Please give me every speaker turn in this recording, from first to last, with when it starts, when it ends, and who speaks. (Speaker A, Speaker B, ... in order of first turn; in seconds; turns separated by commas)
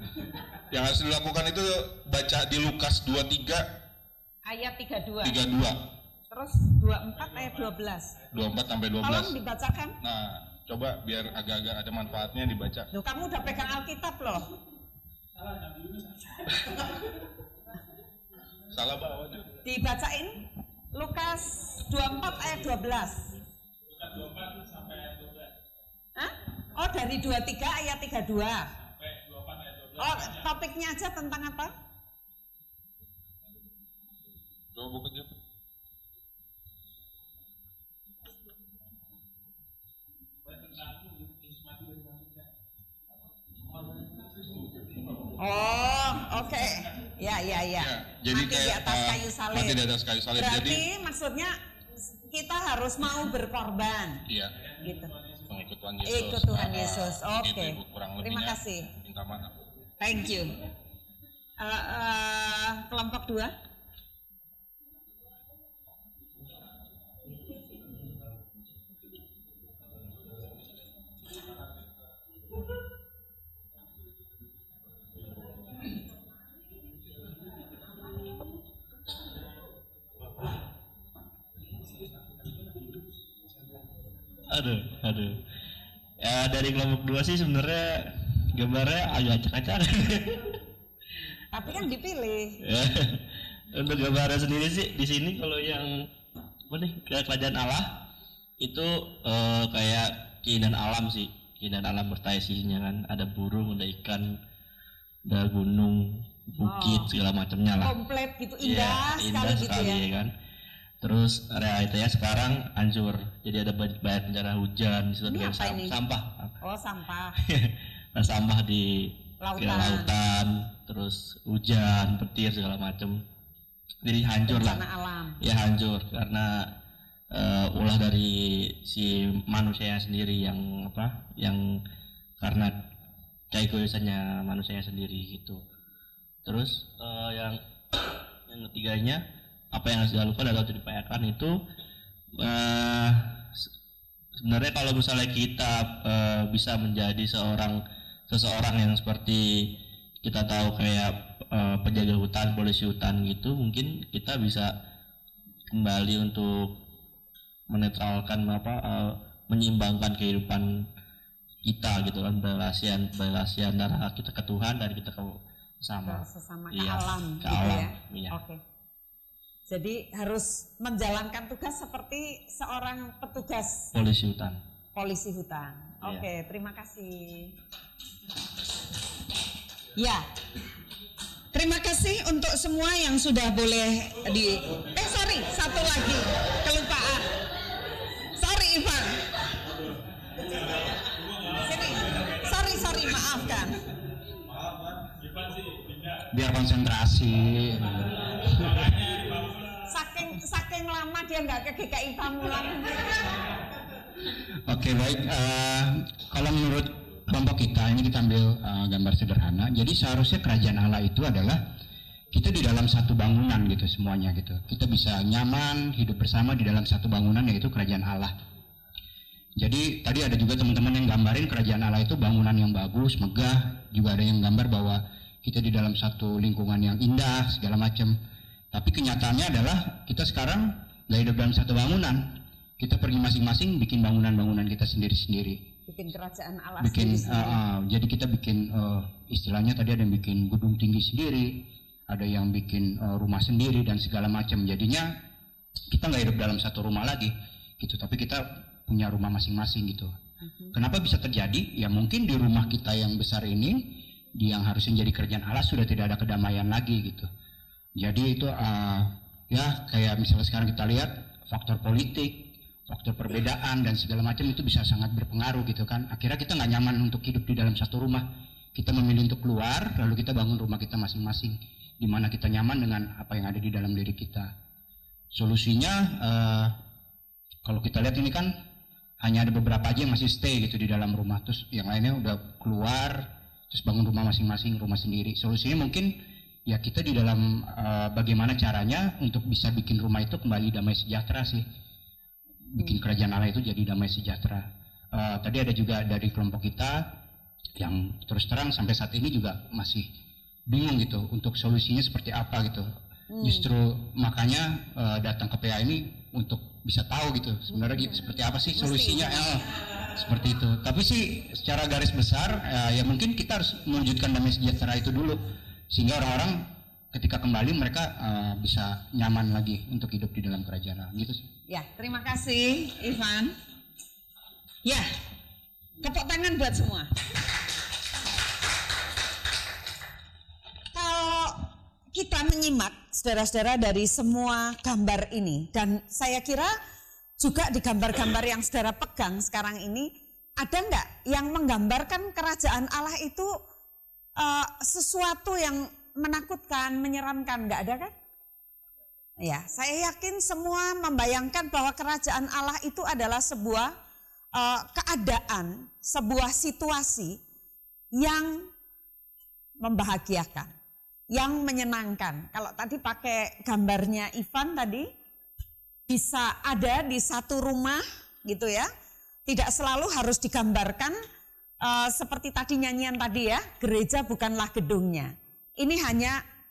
Speaker A: 0.7-3.7, Speaker B: 4.5-5.4, Speaker A: 5.2-5.8, Speaker B: 6.3-8.2, Speaker A: 8.3-9.3, Speaker B: 9.0-10.0, Speaker A: 10.0-12.9, Speaker B: 12.9-14.5, Speaker A: 18.7-19.6, Speaker B: 19.6-20.4, Speaker B: 20.9-23.3, Speaker B: 26.2-28.6, Speaker B: 30.0-31.7, Speaker A: 34.7-35.3, Speaker B: 45.4-49.8, Speaker A: 47.8-50.9, Speaker B: 50.4-51.5, Speaker B: 52.3-54.2, Speaker A: 54.3-54.6, Speaker B: 54.8-55.1, Speaker A: 55.5-59.6, Speaker B: 56.0-58.9, Speaker B: 60.0-60.6, Speaker B: 61.6-63.5, Speaker C: 84.5-85.4, Speaker C: 86.2-90.6, Speaker B: 91.5-92.6, Speaker C: 92.7-96.1, Speaker C: 96.7-98.1, Speaker C: 98.6-104.4, Speaker C: 105.3-108.0, Speaker B: 106.6-107.1, Speaker B: 107.8-110.0, Speaker C: 108.6-110.3, Speaker C: 111.0-116.5, Speaker B: 115.3-116.0, Speaker B: 116.6-117.4, Speaker C: 117.4-123.2, Speaker B: 119.4-120.1, Speaker C: 124.0-124.8, Speaker B: 124.5-125.4, Speaker C: 125.4-126.8, Speaker C: 127.3-131.8, Speaker C: 132.4-132.8, Speaker C: 133.5-135.6, Speaker C: 136.4-141.6, Speaker C: 142.4-143.7, Speaker C: 144.4-147.8, Speaker C: 148.3-154.7, Speaker C: 155.7-156.8, Speaker C: 157.7-160.9, Speaker C: 161.7-168.4, Speaker B: 166.1-168.6, Speaker B: 169.7-173.9, Speaker C: 173.9-174.6, Speaker B: 174.9-177.6, Speaker B: 180.0-180.3, Speaker B: 181.5-187.3, Speaker B: 188.4-189.2, Speaker B: 191.6-193.8, Speaker D: 196.3-199.1, Speaker B: 199.9-203.3, Speaker D: 204.7-211.6, Speaker D: 212.3-218.3, Speaker D: 219.6-228.2, Speaker D: 228.7-235.7, Speaker B: 235.9-237.6, Speaker D: 236.8-245.2, Speaker D: 245.9-250.2, Speaker D: 250.7-257.3, Speaker D: 258.0-274.5, Speaker D: 275.3-276.8, Speaker D: 277.6-278.6, Speaker D: 279.2-291.6, Speaker D: 292.7-297.2, Speaker D: 297.8-300.1, Speaker D: 300.7-302.9, Speaker B: 303.3-303.7, Speaker D: 303.4-321.4, Speaker B: 308.8-309.4, Speaker B: 321.7-323.6, Speaker B: 324.9-325.1, Speaker B: 326.0-327.1, Speaker B: 330.9-336.8, Speaker B: 337.4-343.5, Speaker B: 344.4-348.1, Speaker B: 349.4-353.9, Speaker B: 354.5-357.4, Speaker B: 358.2-358.7, Speaker B: 359.8-360.7, Speaker B: 361.3-365.1, Speaker B: 366.1-368.9, Speaker B: 369.5-371.2, Speaker B: 371.8-376.4